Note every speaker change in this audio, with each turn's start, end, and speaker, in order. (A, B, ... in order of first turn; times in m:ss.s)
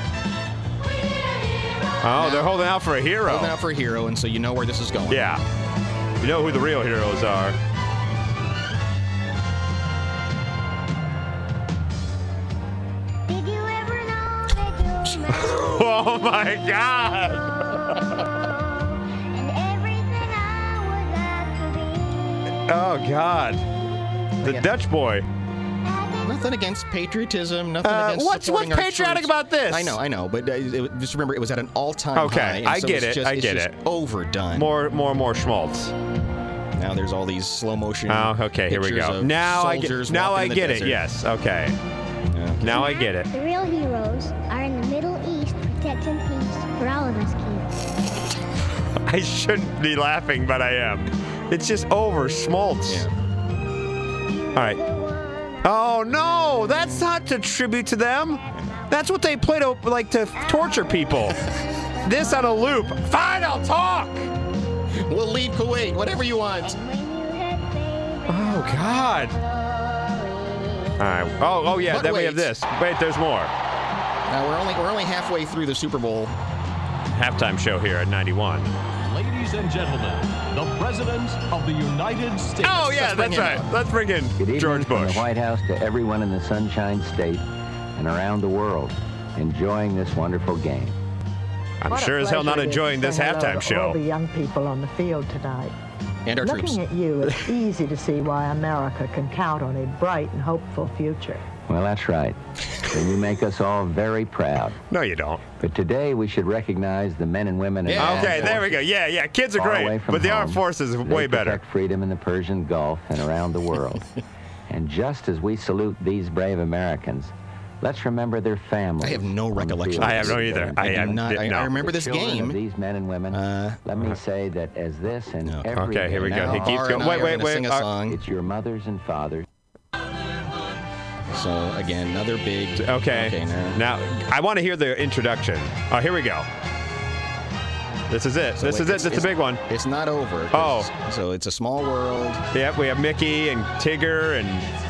0:02.0-0:03.5 A
0:02.2-0:02.6 B
0:03.2-0:05.3 B
0:05.1-0:05.4 A
0:06.2-0:07.6 A
0:13.3-0:15.8 C
0:15.4-0:17.8 A
0:17.8-0:22.6 C
0:22.7-0:23.6 A
0:24.4-0:25.3 A
0:24.4-0:24.7 B
0:25.8-0:26.4 C
0:26.2-0:34.7 B
0:27.8-0:30.0 A
0:32.2-0:33.8 A
0:34.5-0:35.9 A
0:36.8-0:41.0 B
0:38.1-0:41.8 A
0:42.3-0:42.8 B
0:42.6-0:43.3 A
0:42.7-0:47.9 C
0:49.1-0:53.1 A
0:52.9-0:53.1 B
0:54.3-0:56.8 C
0:54.6-0:54.8 A
0:55.6-1:01.4 A
0:58.5-0:58.8 C
1:00.4-1:02.5 C
1:02.0-1:04.3 A
1:05.0-1:06.8 B
1:06.6-1:11.0 C
1:08.3-1:09.4 A
1:11.0-1:13.5 A
1:11.9-1:12.5 B
1:14.3-1:16.3 B
1:17.1-1:18.7 A
1:19.0-1:23.4 D
1:22.6-1:25.3 A
1:23.1-1:23.7 B
1:24.4-1:27.4 E
1:28.0-1:31.0 E
1:31.8-1:34.0 A
1:31.9-1:35.7 F
1:36.3-1:36.8 B
1:36.4-1:41.5 F
1:41.6-1:44.8 E
1:44.9-1:45.4 A
1:45.6-1:48.6 E
1:47.9-1:48.6 B
1:48.0-1:51.6 A
1:49.6-1:54.0 E
1:54.7-2:01.2 E
1:59.0-2:02.6 B
2:00.0-2:01.8 A
2:01.8-2:07.1 E
2:03.3-2:03.8 B
2:05.4-2:08.2 B
2:05.7-2:07.9 A
2:08.1-2:09.4 E
2:11.3-2:13.8 B
2:12.8-2:16.5 A
2:18.1-2:19.6 A
2:18.6-2:22.4 B
2:20.5-2:20.9 A
2:22.5-2:24.7 A